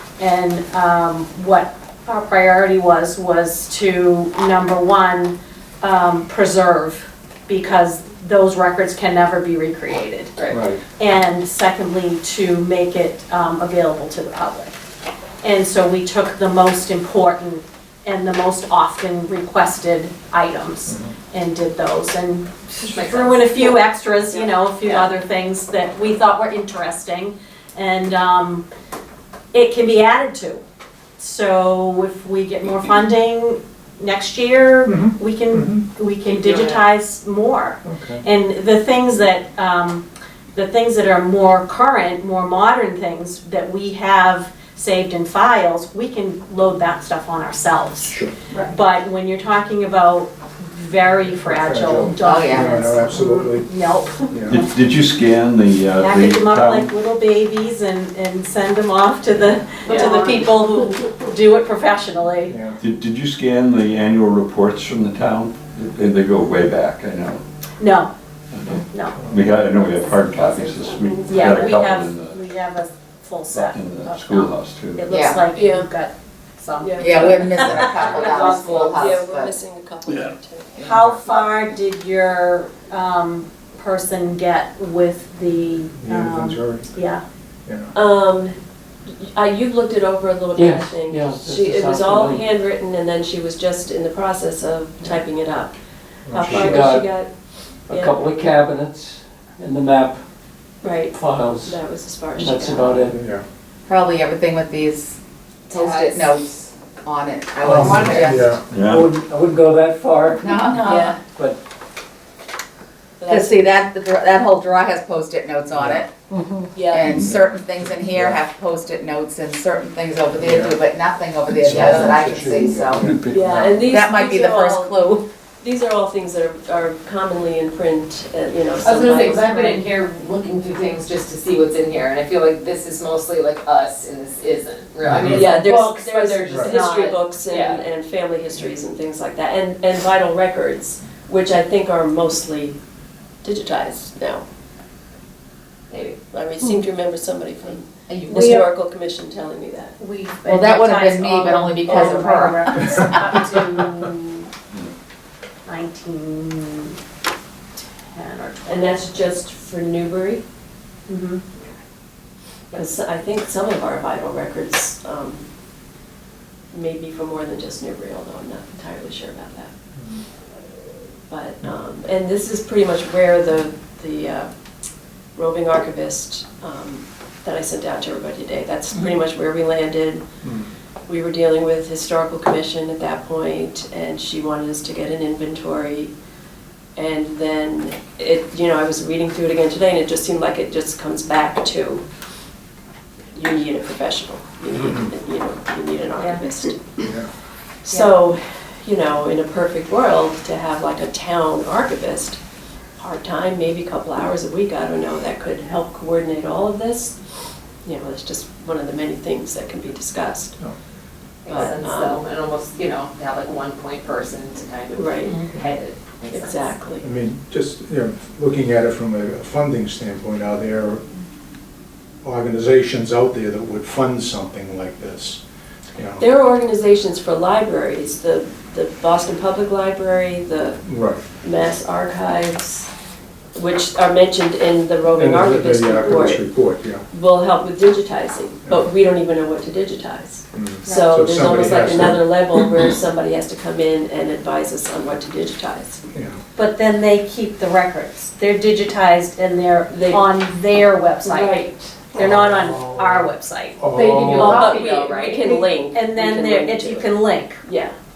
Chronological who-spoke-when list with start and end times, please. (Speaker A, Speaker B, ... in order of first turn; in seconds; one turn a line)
Speaker A: 0.2-10.4
Speaker B: 10.4-10.7
Speaker C: 10.5-10.8
Speaker A: 11.0-14.8
Speaker A: 15.4-28.7
Speaker C: 20.9-21.1
Speaker B: 22.8-23.8
Speaker B: 24.3-25.1
Speaker A: 29.5-30.6
Speaker A: 31.2-54.7
Speaker C: 34.9-35.9
Speaker B: 36.3-36.8
Speaker C: 37.9-38.2
Speaker C: 48.0-48.3
Speaker C: 51.4-54.6
Speaker D: 52.2-52.8
Speaker E: 54.5-56.9
Speaker A: 56.0-62.5
Speaker B: 59.9-60.4
Speaker C: 62.5-62.8
Speaker E: 62.8-67.4
Speaker A: 67.8-68.1
Speaker E: 68.5-72.4
Speaker A: 68.9-69.2
Speaker C: 69.2-69.5
Speaker B: 70.1-71.4
Speaker A: 71.3-79.1
Speaker E: 73.5-75.1
Speaker D: 75.1-75.4
Speaker F: 75.6-75.9
Speaker F: 76.8-80.7
Speaker D: 77.0-79.5
Speaker A: 80.8-87.2
Speaker C: 80.8-81.2
Speaker C: 86.0-86.9
Speaker C: 87.7-87.9
Speaker F: 88.0-88.6
Speaker F: 89.1-95.8
Speaker G: 90.6-92.4
Speaker C: 96.3-97.0
Speaker F: 96.3-98.2
Speaker G: 96.4-97.1
Speaker G: 97.9-100.2
Speaker F: 100.8-103.0
Speaker G: 101.1-101.8
Speaker G: 102.4-103.2
Speaker C: 103.1-103.5
Speaker D: 103.9-105.2
Speaker B: 105.7-106.4
Speaker D: 105.7-108.5
Speaker C: 107.6-108.6
Speaker B: 107.7-108.6
Speaker E: 108.7-109.1
Speaker G: 108.8-111.6
Speaker D: 110.4-111.2
Speaker F: 110.8-111.2
Speaker F: 113.2-113.7
Speaker D: 113.3-116.1
Speaker C: 115.7-116.0
Speaker F: 116.7-117.1
Speaker D: 116.9-123.1
Speaker C: 117.2-118.4
Speaker C: 120.4-120.8
Speaker C: 121.6-123.8
Speaker F: 123.3-129.8
Speaker D: 123.7-125.2
Speaker B: 128.8-137.8
Speaker C: 135.1-135.5
Speaker F: 135.2-142.8
Speaker C: 136.5-136.8
Speaker F: 143.4-144.4
Speaker B: 145.9-146.2
Speaker F: 146.3-150.0
Speaker B: 148.1-148.6
Speaker A: 150.0-154.5
Speaker D: 150.5-153.5
Speaker A: 155.7-157.0
Speaker A: 157.8-159.1
Speaker F: 158.7-160.4
Speaker A: 161.1-161.4
Speaker F: 162.7-165.4
Speaker F: 166.7-169.7
Speaker C: 170.0-170.2
Speaker F: 171.3-174.5
Speaker F: 175.4-180.2
Speaker C: 180.4-180.7
Speaker F: 181.1-186.1
Speaker F: 187.0-192.1
Speaker F: 193.3-197.0
Speaker C: 194.8-195.1
Speaker C: 197.0-197.3
Speaker F: 197.8-202.4
Speaker F: 203.0-207.2
Speaker F: 207.8-210.6
Speaker B: 211.4-216.7
Speaker F: 211.5-212.2
Speaker F: 214.9-215.4
Speaker C: 215.3-215.6
Speaker F: 216.3-217.1
Speaker C: 217.0-221.0
Speaker C: 222.2-225.4
Speaker C: 225.9-226.2
Speaker F: 226.2-230.8
Speaker C: 230.8-231.2
Speaker F: 231.4-232.9
Speaker F: 233.6-236.5
Speaker C: 235.2-237.1
Speaker F: 237.1-246.0
Speaker C: 240.5-242.2
Speaker A: 240.9-241.2
Speaker C: 246.1-246.4
Speaker A: 246.6-251.6
Speaker F: 249.9-250.3
Speaker F: 251.2-252.2
Speaker A: 252.1-253.8
Speaker C: 252.2-254.7
Speaker B: 253.9-255.5
Speaker F: 254.4-257.9
Speaker A: 255.5-257.6